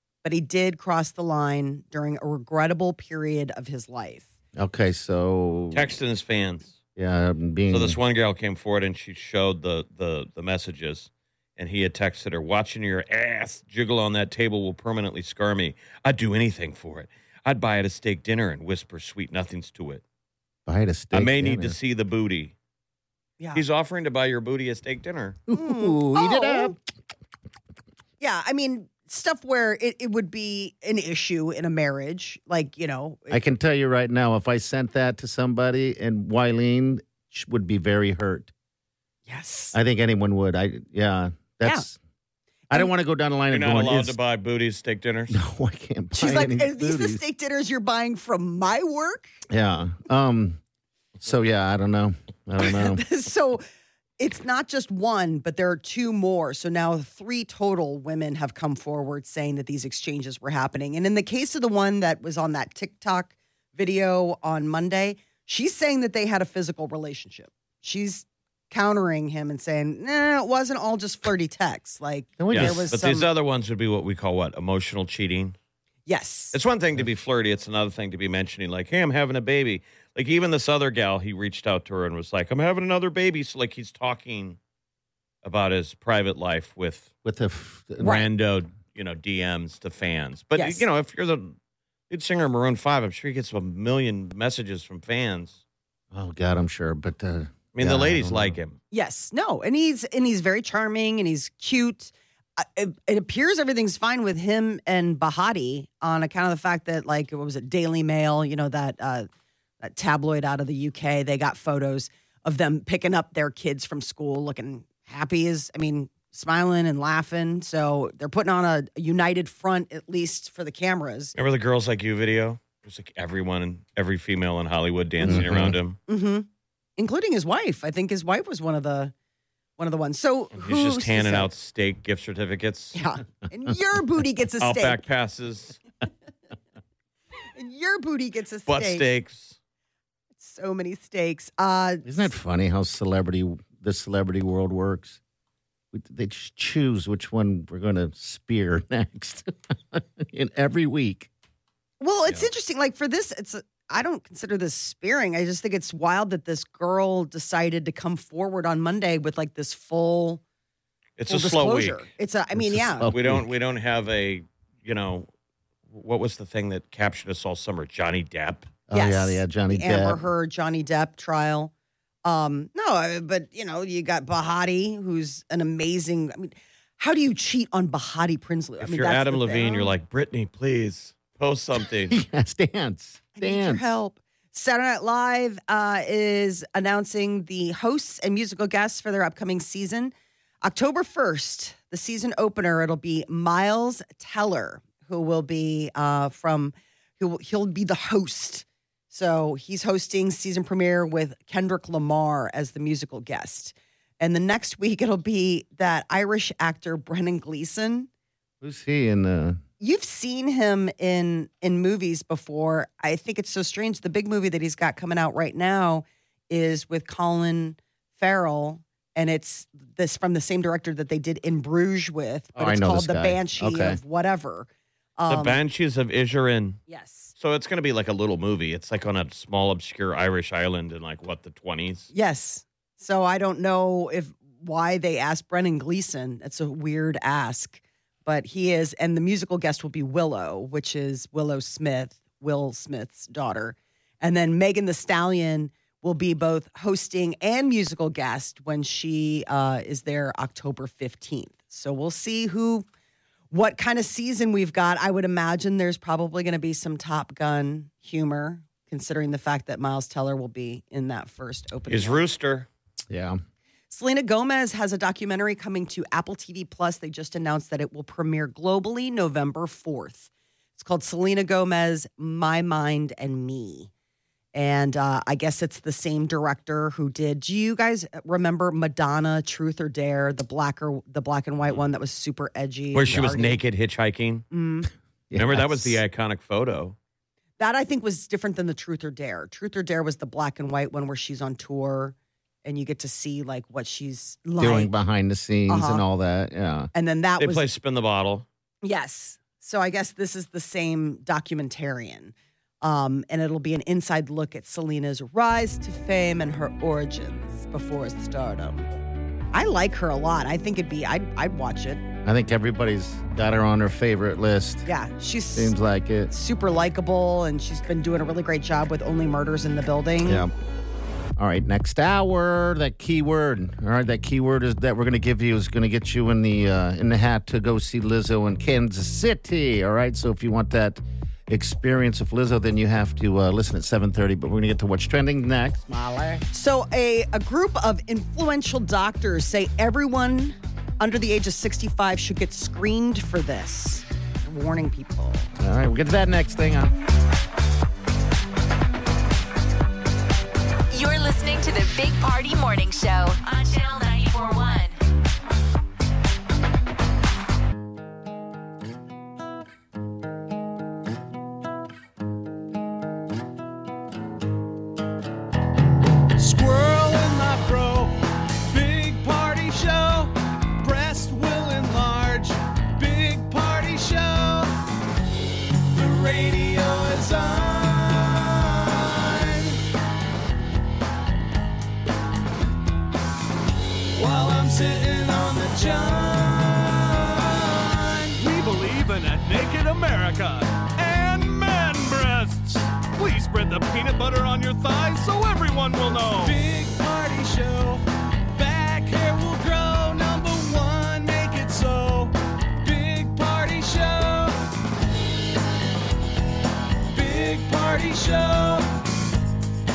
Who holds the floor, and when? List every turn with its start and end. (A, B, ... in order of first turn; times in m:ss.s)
0:00.2-0:04.3 A
0:04.6-0:05.9 B
0:05.7-0:06.7 C
0:07.0-0:08.0 B
0:07.7-0:20.0 C
0:20.7-0:21.8 B
0:21.1-0:22.5 C
0:23.5-0:25.4 C
0:25.5-0:26.7 B
0:25.5-0:26.7 A
0:28.2-0:33.4 A
0:33.3-0:38.5 B
0:39.3-0:39.7 A
0:39.7-0:42.0 B
0:42.7-0:44.2 B
0:43.5-0:45.4 C
0:45.3-0:47.2 B
0:46.1-0:49.3 A
0:49.5-0:50.6 B
0:51.2-0:53.0 B
0:52.6-0:53.6 A
0:54.2-1:13.3 A
1:12.4-1:12.8 B
1:12.5-1:15.5 C
1:16.1-1:16.6 A
1:16.5-1:24.6 C
1:25.4-1:27.1 C
1:27.2-1:28.2 B
1:28.0-1:31.6 C
1:30.5-1:30.8 A
1:32.1-1:35.6 C
1:36.1-1:38.6 B
1:37.7-1:38.8 C
1:38.9-1:49.3 A
1:49.8-2:01.3 A
2:01.3-2:06.0 C
2:05.2-2:05.8 B
2:06.1-2:09.1 A
2:09.8-2:11.5 A
2:10.5-2:13.0 C
2:12.9-2:15.0 A
2:14.6-2:15.8 C
2:17.5-2:19.0 A
2:18.7-2:19.6 C
2:20.4-2:22.3 A
2:22.0-2:25.2 B
2:25.9-2:31.3 B
2:32.0-2:40.4 A
2:41.2-2:42.1 C
2:41.3-2:43.1 A
2:42.5-2:43.5 B
2:43.1-2:45.3 C
2:45.9-2:48.7 C
2:48.9-2:50.2 B
2:48.9-2:51.7 A
2:52.2-2:59.9 A
2:58.8-3:02.2 C
3:02.1-3:04.0 B
3:03.4-3:28.1 A
3:28.6-3:29.6 B
3:29.8-3:45.6 A
3:42.6-3:44.0 B
3:45.3-3:46.8 C
3:46.9-3:47.3 A
3:47.4-3:52.1 C
3:52.1-4:12.8 A
4:13.5-4:22.2 A
4:21.9-4:22.7 C
4:23.1-4:23.4 B
4:23.9-4:33.9 A
4:34.5-4:43.6 A
4:42.9-4:44.4 C
4:44.5-4:44.9 A
4:45.3-4:46.0 B
4:45.4-4:47.0 C
4:47.6-4:55.0 A
4:54.6-4:56.9 B
4:55.7-4:56.0 A
4:56.9-4:57.6 A
4:57.4-4:58.4 C
4:58.8-5:08.9 A
5:09.5-5:12.0 A
5:12.2-5:14.9 B
5:14.8-5:15.7 A
5:15.5-5:16.3 B
5:16.3-5:20.4 A
5:20.2-5:20.5 B
5:21.4-5:36.4 B
5:36.5-5:45.5 A
5:45.6-5:46.9 B
5:50.9-5:55.0 D
6:06.4-6:08.1 E
6:08.7-6:14.7 E
6:15.9-6:19.8 E
6:24.1-6:44.6 E
6:47.1-6:48.9 E